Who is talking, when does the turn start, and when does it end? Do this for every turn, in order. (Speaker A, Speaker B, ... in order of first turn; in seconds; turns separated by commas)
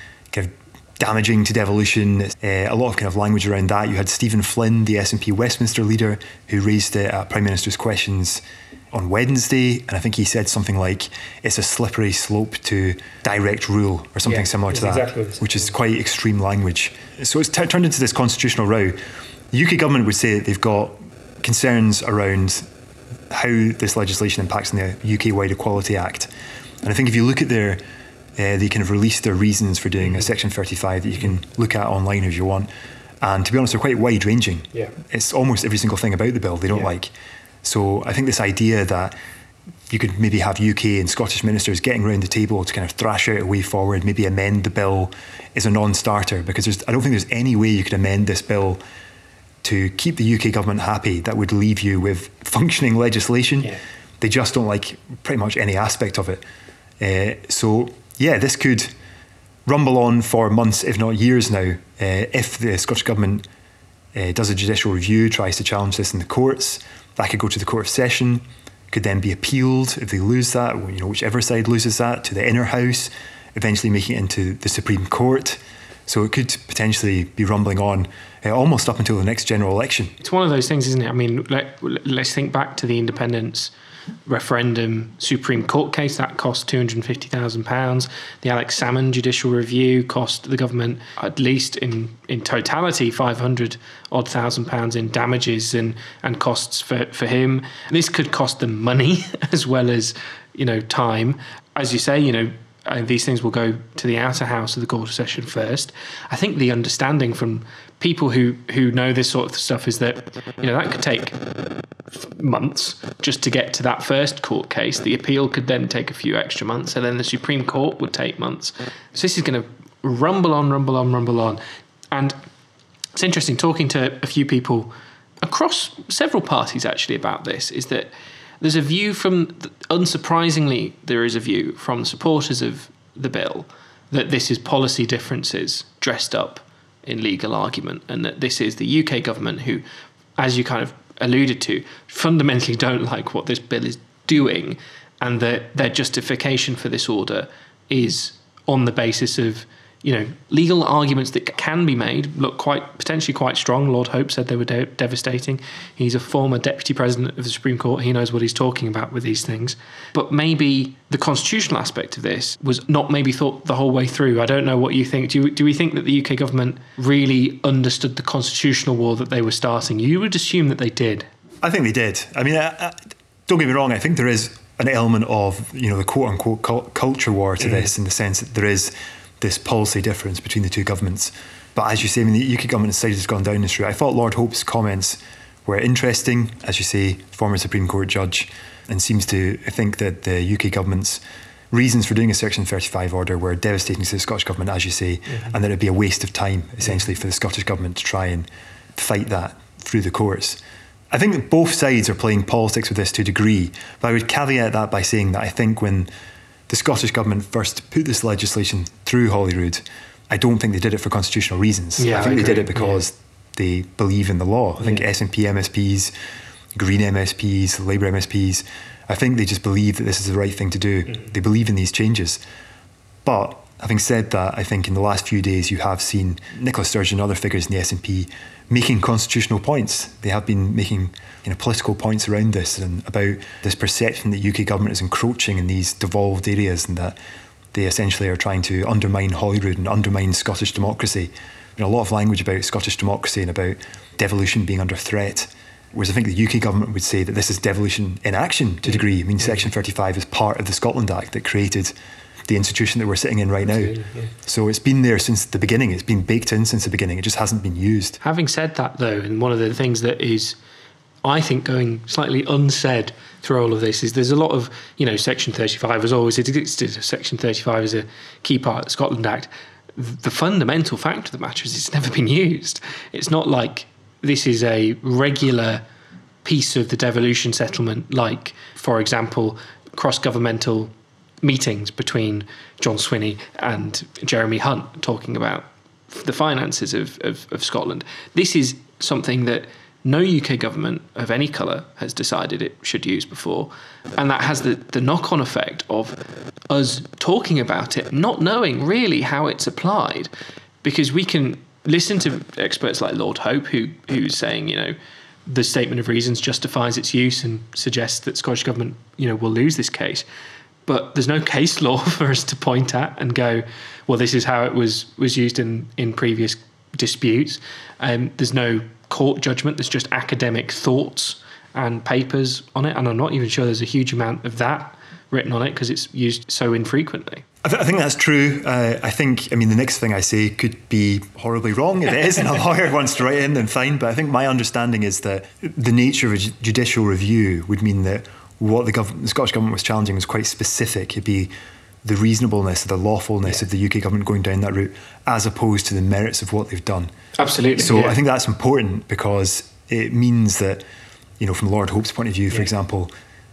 Speaker A: 0.3-19.0, Speaker B: 14.2-15.7, Speaker A: 19.5-22.6, Speaker A: 23.3-26.3, Speaker A: 26.8-27.8, Speaker A: 28.4-32.7, Speaker A: 33.2-37.1, Speaker A: 37.6-39.1, Speaker A: 39.9-48.8, Speaker A: 49.6-56.4, Speaker A: 57.0-58.9, Speaker A: 59.6-63.5, Speaker A: 64.1-80.1, Speaker B: 80.2-83.7, Speaker B: 84.3-111.4, Speaker B: 112.1-121.6, Speaker B: 122.1-122.4, Speaker B: 123.2-139.8, Speaker B: 140.4-171.3, Speaker A: 171.6-200.6, Speaker B: 177.6-177.9, Speaker A: 201.1-206.1, Speaker A: 206.7-216.1, Speaker B: 212.0-213.0, Speaker A: 216.7-222.4, Speaker A: 223.2-237.2, Speaker A: 237.7-251.9, Speaker B: 249.4-249.7, Speaker A: 252.5-258.2, Speaker B: 253.7-254.3, Speaker B: 258.2-260.6, Speaker B: 261.2-275.8, Speaker B: 276.4-300.3, Speaker B: 300.8-304.9, Speaker B: 305.5-310.2, Speaker B: 310.9-327.4, Speaker A: 327.6-341.5, Speaker A: 342.0-347.1, Speaker B: 347.4-348.2, Speaker A: 347.8-350.8, Speaker A: 351.4-353.1